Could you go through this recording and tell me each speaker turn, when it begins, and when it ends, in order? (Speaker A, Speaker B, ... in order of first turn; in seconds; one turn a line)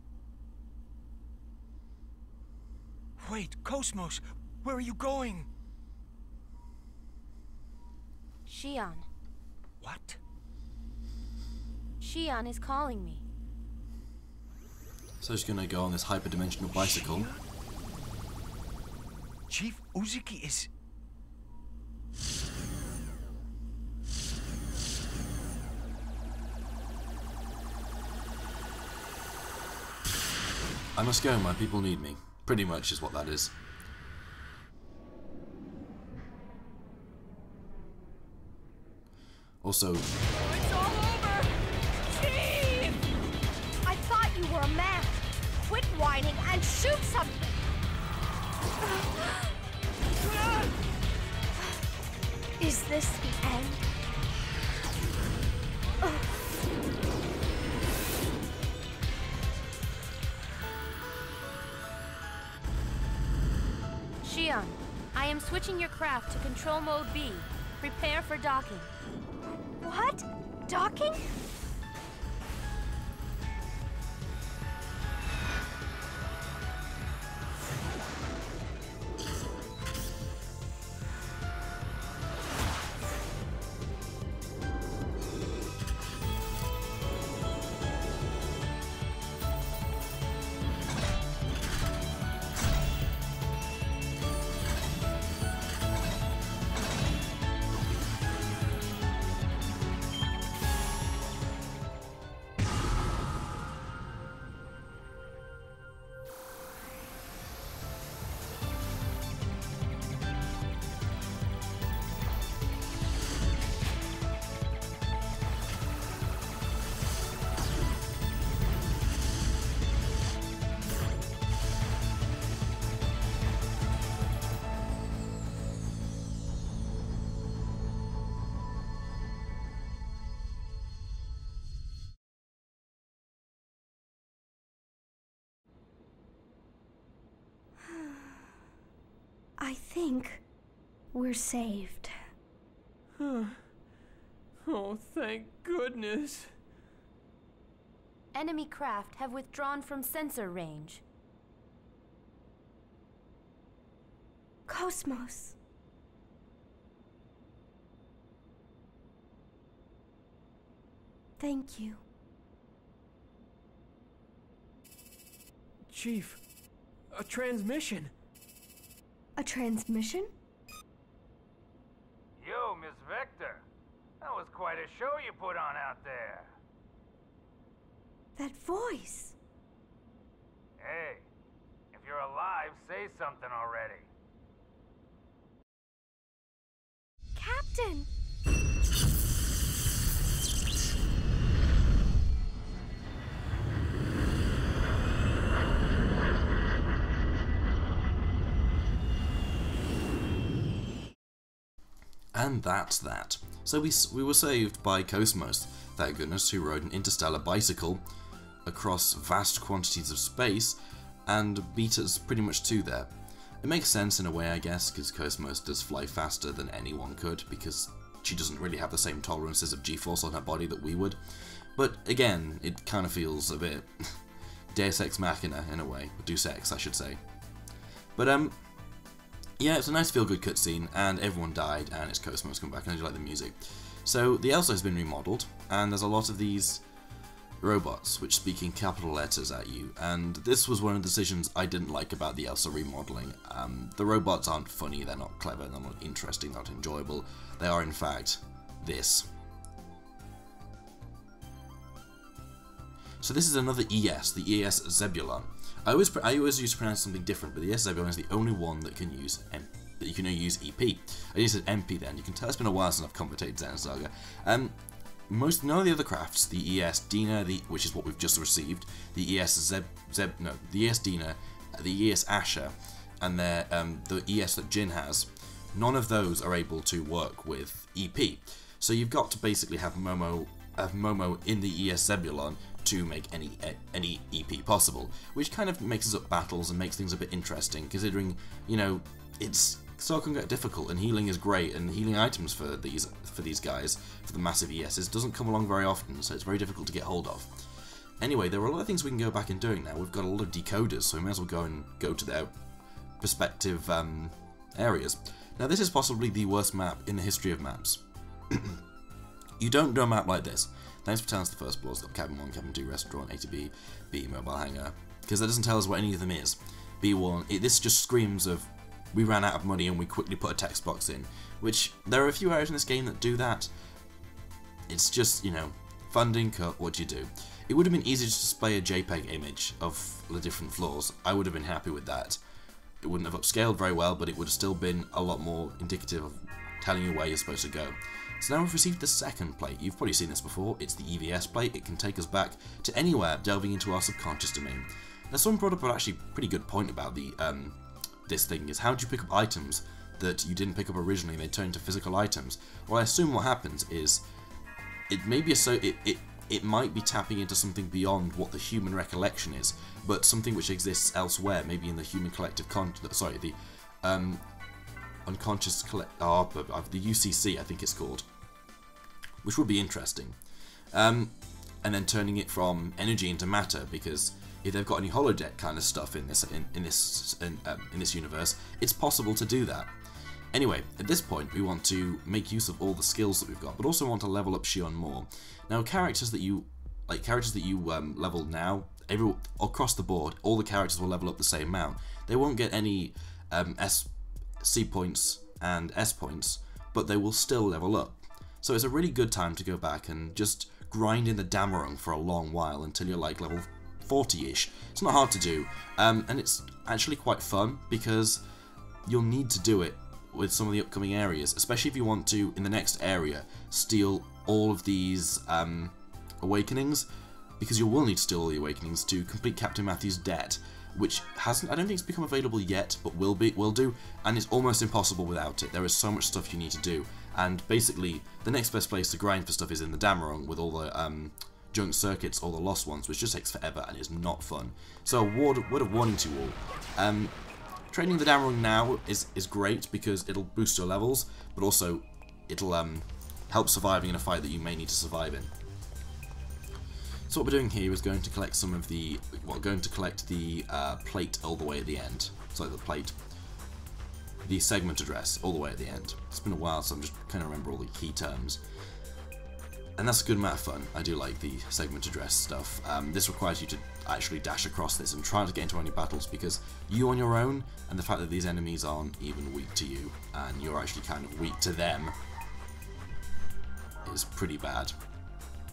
Speaker A: 3.2-5.5
Speaker B: 8.5-9.1
Speaker A: 9.8-10.2
Speaker B: 12.0-13.2
Speaker C: 15.2-17.3
Speaker A: 16.8-17.4
Speaker A: 19.5-20.7
Speaker C: 31.0-33.5
Speaker C: 39.6-40.1
Speaker D: 40.5-41.5
Speaker D: 42.1-42.7
Speaker E: 42.4-42.9
Speaker D: 43.8-47.6
Speaker D: 48.8-49.6
Speaker D: 50.3-50.7
Speaker D: 52.6-53.9
Speaker D: 56.0-56.3
Speaker B: 64.2-68.9
Speaker D: 69.8-71.3
Speaker D: 137.8-138.4
Speaker D: 139.6-140.4
Speaker D: 141.1-142.1
Speaker E: 143.2-143.6
Speaker E: 144.6-146.5
Speaker B: 148.3-151.0
Speaker D: 154.7-155.6
Speaker D: 161.4-162.0
Speaker E: 165.9-166.4
Speaker E: 167.1-168.1
Speaker D: 169.4-170.3
Speaker F: 172.4-173.7
Speaker F: 174.2-176.5
Speaker D: 178.4-179.4
Speaker F: 180.8-181.3
Speaker F: 181.9-184.1
Speaker D: 187.3-188.1
Speaker C: 202.3-208.0
Speaker C: 208.7-213.1
Speaker C: 213.6-221.2
Speaker C: 221.8-224.2
Speaker C: 224.7-227.2
Speaker C: 228.2-228.6
Speaker C: 229.6-236.8
Speaker C: 237.6-249.3
Speaker C: 253.2-264.8
Speaker C: 265.3-297.5
Speaker C: 298.2-302.5
Speaker C: 303.2-308.8
Speaker C: 309.6-323.7
Speaker C: 324.9-332.4
Speaker C: 333.0-354.2
Speaker C: 355.1-364.4
Speaker C: 365.3-368.3
Speaker C: 369.4-370.4
Speaker C: 370.9-379.9
Speaker C: 380.5-394.1
Speaker C: 394.6-408.4
Speaker C: 409.1-417.1
Speaker C: 417.6-437.3
Speaker C: 437.9-445.5
Speaker C: 447.3-453.2
Speaker C: 454.4-458.6
Speaker C: 460.0-472.1
Speaker C: 474.1-474.9